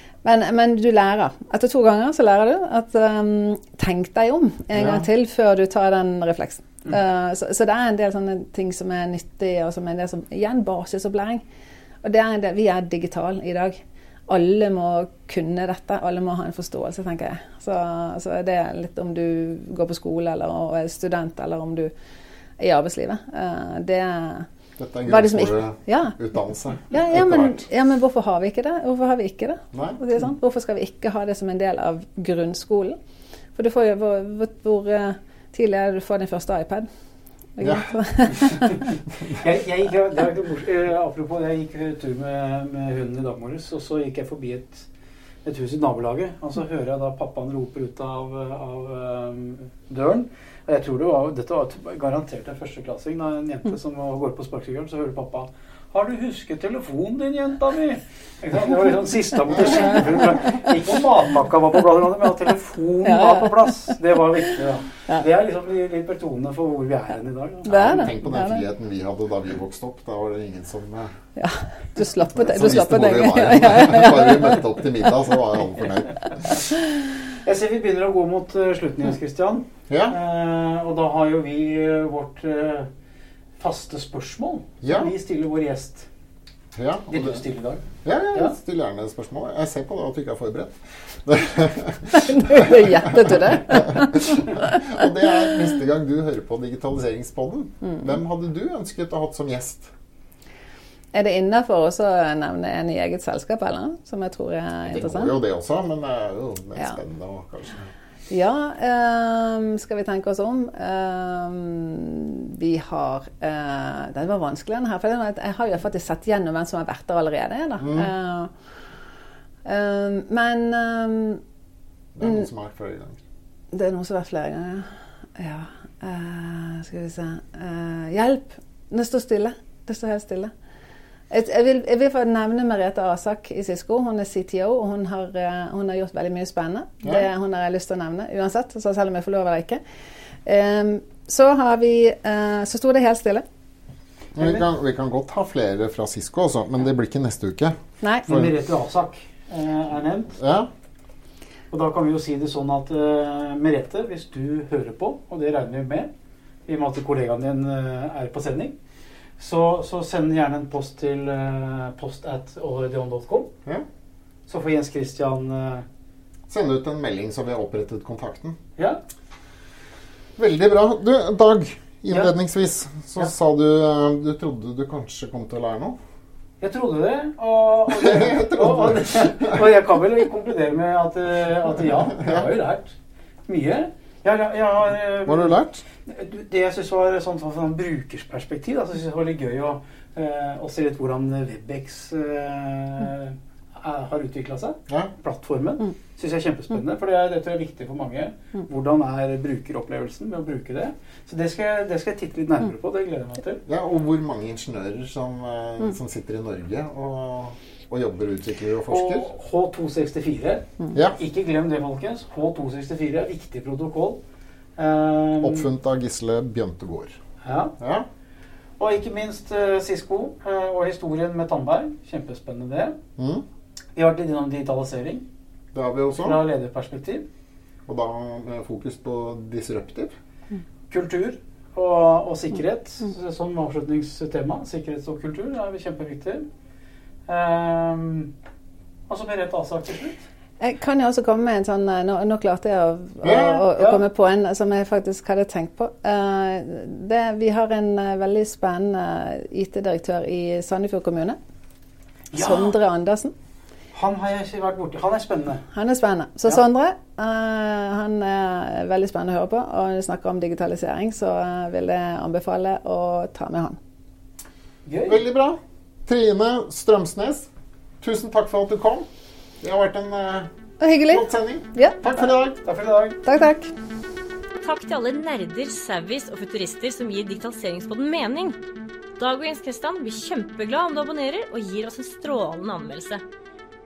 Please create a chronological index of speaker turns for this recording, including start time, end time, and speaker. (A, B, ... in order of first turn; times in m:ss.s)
0:00.2-0:11.4 A
0:04.7-0:05.0 B
0:12.0-0:21.9 A
0:22.6-0:24.5 A
0:24.8-0:27.7 B
0:25.1-0:26.2 A
0:26.9-0:33.0 A
0:29.7-0:30.0 B
0:33.6-0:36.9 A
0:37.6-0:38.9 A
0:37.6-0:37.9 B
0:39.3-0:44.9 C
0:45.4-1:07.9 C
1:03.0-1:03.7 A
1:07.6-1:08.6 A
1:07.7-1:11.1 B
1:11.4-1:14.6 A
1:12.4-1:16.6 B
1:17.4-1:22.9 C
1:19.9-1:20.2 B
1:23.6-1:26.1 C
1:24.8-1:25.1 B
1:26.7-1:27.4 B
1:27.1-1:28.6 C
1:28.0-1:39.9 B
1:32.1-1:34.8 A
1:37.8-1:38.1 A
1:41.1-1:45.3 A
1:44.9-1:47.9 B
1:48.3-1:58.5 A
1:57.8-1:58.1 B
1:59.6-2:01.4 A
2:02.1-2:03.2 B
2:03.7-2:10.5 A
2:11.3-2:19.8 A
2:20.4-2:23.4 A
2:24.4-2:28.5 B
2:24.4-2:24.6 C
2:28.0-2:28.3 A
2:28.3-2:30.3 C
2:30.4-2:30.7 B
2:31.7-2:36.1 C
2:36.7-2:38.7 C
2:39.4-2:43.5 C
2:44.5-2:45.8 C
2:46.5-2:48.6 B
2:50.4-2:56.0 B
2:56.6-3:02.9 C
2:57.9-2:59.6 B
3:03.5-3:23.6 C
3:05.2-3:05.8 B
3:23.6-3:29.3 B
3:28.9-3:34.2 C
3:34.8-3:35.7 C
3:35.4-3:37.2 B
3:37.4-3:37.8 C
3:37.8-3:38.1 B
3:38.8-3:43.0 C
3:43.2-3:43.4 B
3:44.0-3:45.2 C
3:45.7-3:46.4 B
3:46.2-3:47.2 C
3:47.9-3:50.1 B
3:50.9-3:56.4 C
3:57.3-3:58.3 C
3:59.1-4:00.2 C
4:00.6-4:11.4 A
4:03.2-4:03.6 B
4:03.8-4:04.0 C
4:12.3-4:12.7 C
4:12.4-4:13.3 A
4:13.9-4:15.6 C
4:15.7-4:23.8 A
4:24.8-4:25.2 C
4:25.1-4:27.5 B
4:28.0-4:29.1 B
4:29.6-4:30.5 B
4:30.8-4:32.0 A
4:31.1-4:32.6 B
4:32.1-4:33.2 C
4:33.2-4:33.7 A
4:34.6-4:38.6 D
4:39.2-4:43.2 D